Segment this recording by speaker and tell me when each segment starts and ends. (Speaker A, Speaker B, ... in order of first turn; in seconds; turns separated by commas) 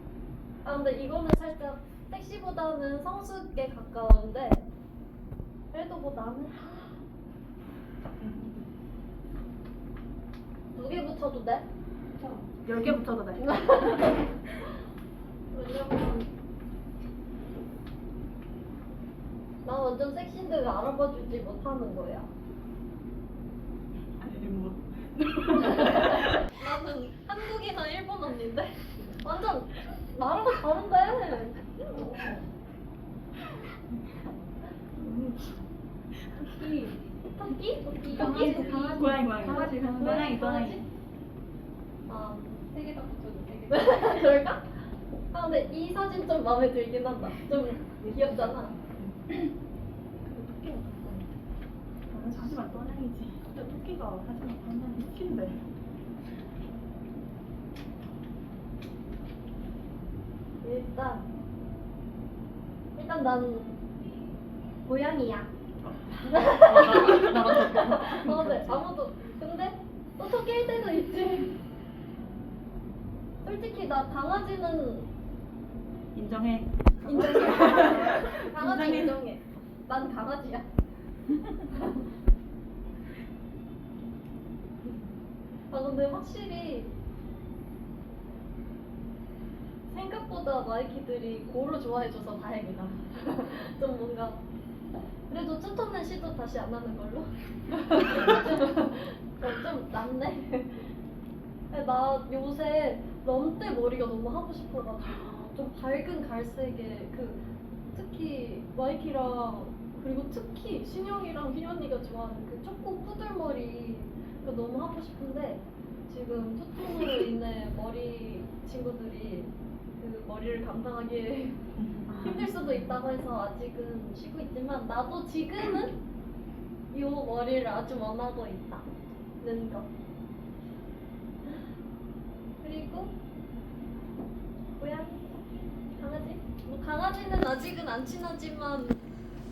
Speaker A: 0.6-4.7, Speaker A: 5.7-7.0, Speaker B: 8.2-8.7, Speaker A: 10.7-11.7, Speaker B: 12.2-13.9, Speaker A: 13.4-14.7, Speaker A: 15.5-16.3, Speaker A: 19.6-22.3, Speaker B: 24.1-26.4, Speaker A: 25.7-32.2, Speaker B: 35.0-35.5, Speaker A: 36.5-40.8, Speaker B: 38.0-40.8, Speaker A: 42.1-44.6, Speaker A: 45.3-48.7, Speaker B: 50.2-51.3, Speaker B: 52.1-55.6, Speaker A: 60.6-61.3, Speaker A: 63.0-63.8, Speaker A: 64.8-65.5, Speaker B: 65.8-68.8, Speaker A: 66.3-71.5, Speaker A: 73.4-75.1, Speaker B: 76.1-79.2, Speaker A: 77.0-80.7, Speaker A: 85.7-86.9, Speaker A: 89.9-94.4, Speaker A: 95.3-100.8, Speaker A: 101.7-107.4, Speaker A: 107.9-121.6, Speaker B: 121.8-122.5, Speaker A: 122.2-126.0, Speaker A: 126.9-128.9, Speaker A: 129.4-129.9, Speaker A: 132.6-133.2, Speaker A: 134.8-139.0